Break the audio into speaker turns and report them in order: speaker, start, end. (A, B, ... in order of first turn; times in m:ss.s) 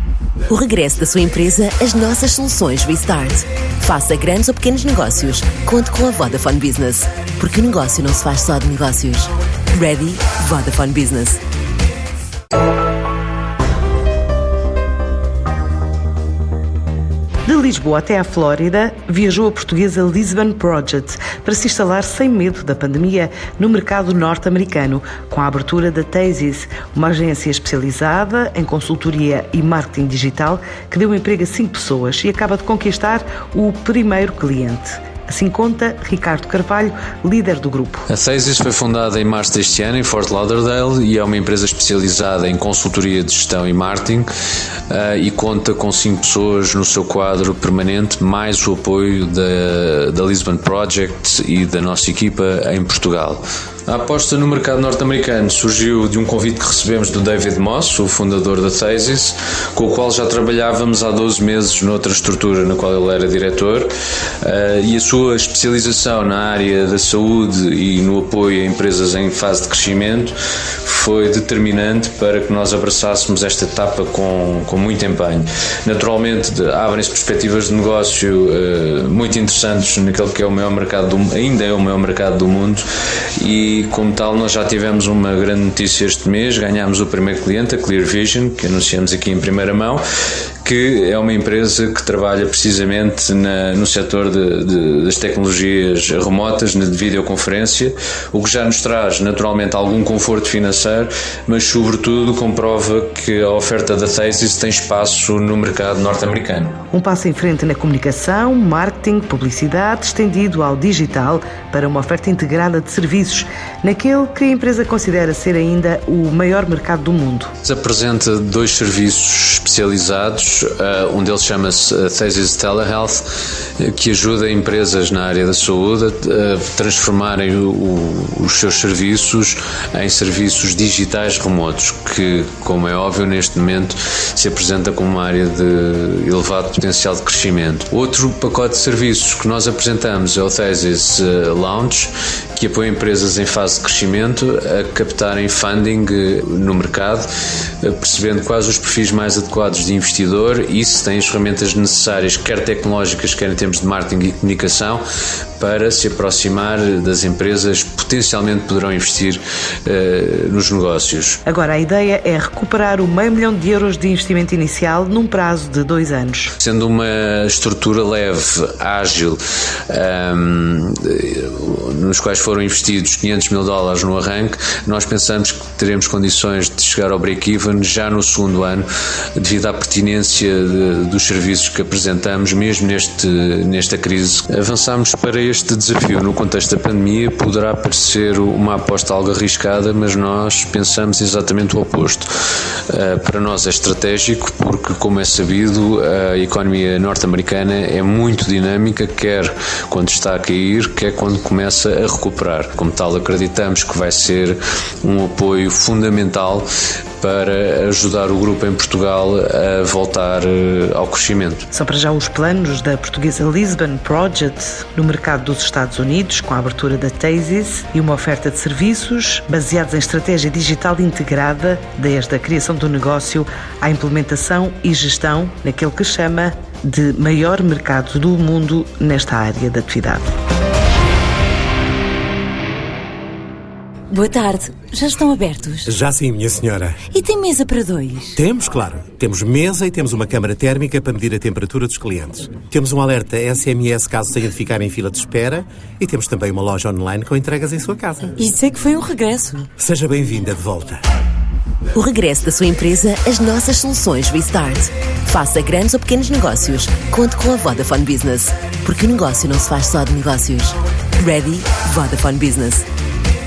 0:00.5-0:11.4 A
0:17.5-0:38.0 B
0:38.1-0:44.3 C
0:44.9-1:03.9 C
1:04.4-1:22.9 C
1:23.4-1:30.0 C
1:30.6-1:46.8 C
1:46.9-1:57.5 B
1:57.6-2:03.3 C
2:03.8-2:27.3 C
2:27.8-2:35.0 C
2:35.6-2:41.4 C
2:41.5-2:46.5 B
2:46.6-3:12.3 C
3:12.9-3:26.7 C
3:27.2-3:31.7 C
3:31.7-3:50.3 B
3:54.1-3:55.9 D
3:55.9-3:57.0 E
3:57.1-3:58.4 D
3:58.4-4:08.4 E
4:08.4-4:09.7 D
4:09.8-4:11.0 E
4:11.9-4:22.8 A